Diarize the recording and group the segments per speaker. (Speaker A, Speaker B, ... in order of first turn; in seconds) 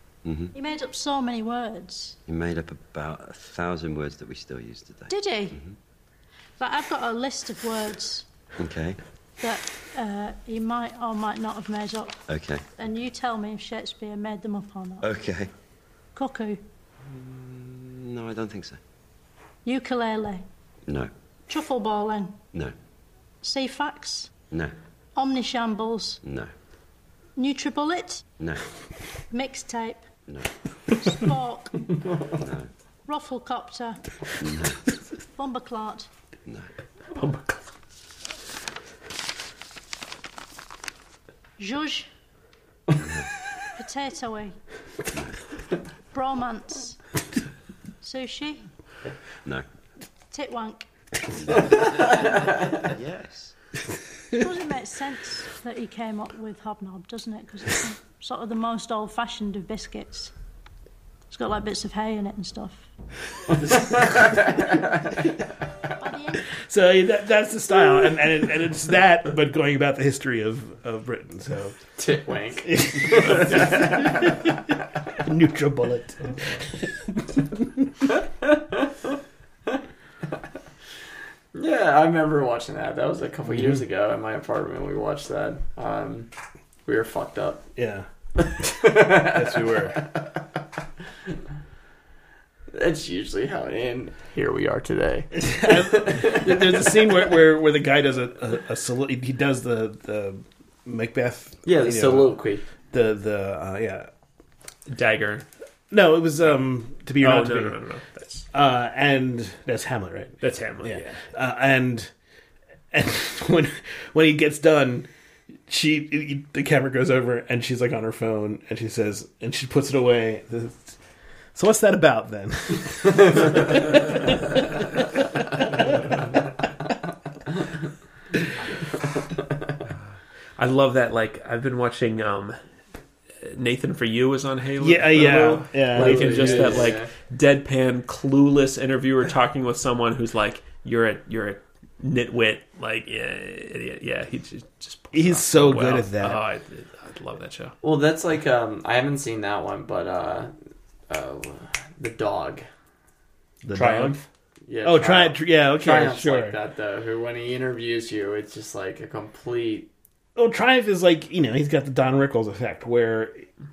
Speaker A: 0.2-0.5, 2.3-5.7, 8.6-9.0, 12.3-12.6, 15.0-15.5, 17.0-18.8, 26.2-26.5, 32.4-32.7, 34.4-34.8, 43.0-43.3, 45.1-45.4, 51.4-53.5
Speaker B: 0.5-2.2, 5.1-5.6, 6.6-8.3, 9.4-12.2, 12.8-15.1, 16.1-16.6, 19.6-20.4, 21.5-22.4, 23.4-24.3, 25.1-26.2, 27.4-28.3, 29.3-30.1, 30.9-32.0, 33.1-34.1, 35.2-36.1, 41.6-42.1, 43.7-44.6, 46.1-47.0, 48.0-48.7, 50.3-50.9, 54.3-60.3, 61.3-62.9, 66.0-66.5
Speaker C: 37.1-37.6, 104.9-105.5, 107.2-108.5, 110.4-111.2, 130.6-132.6, 133.4-147.8, 153.8-154.2
Speaker D: 63.6-64.8, 72.0-74.4, 78.1-79.1, 81.5-86.3, 86.8-87.7, 88.4-90.2, 92.7-96.9, 101.7-102.6, 129.2-129.7, 135.9-137.1, 147.8-150.5, 151.1-152.7, 154.7-159.9
Speaker E: 66.5-71.8, 72.6-74.5, 75.2-76.9, 77.6-77.8, 87.8-88.1, 88.6-90.0, 95.3-102.4, 102.9-104.1, 105.9-107.8, 108.5-112.1, 112.9-115.1, 115.7-121.0, 121.5-126.2, 134.8-136.9, 145.1-146.4, 153.6-154.2, 154.8-156.6, 160.4-163.5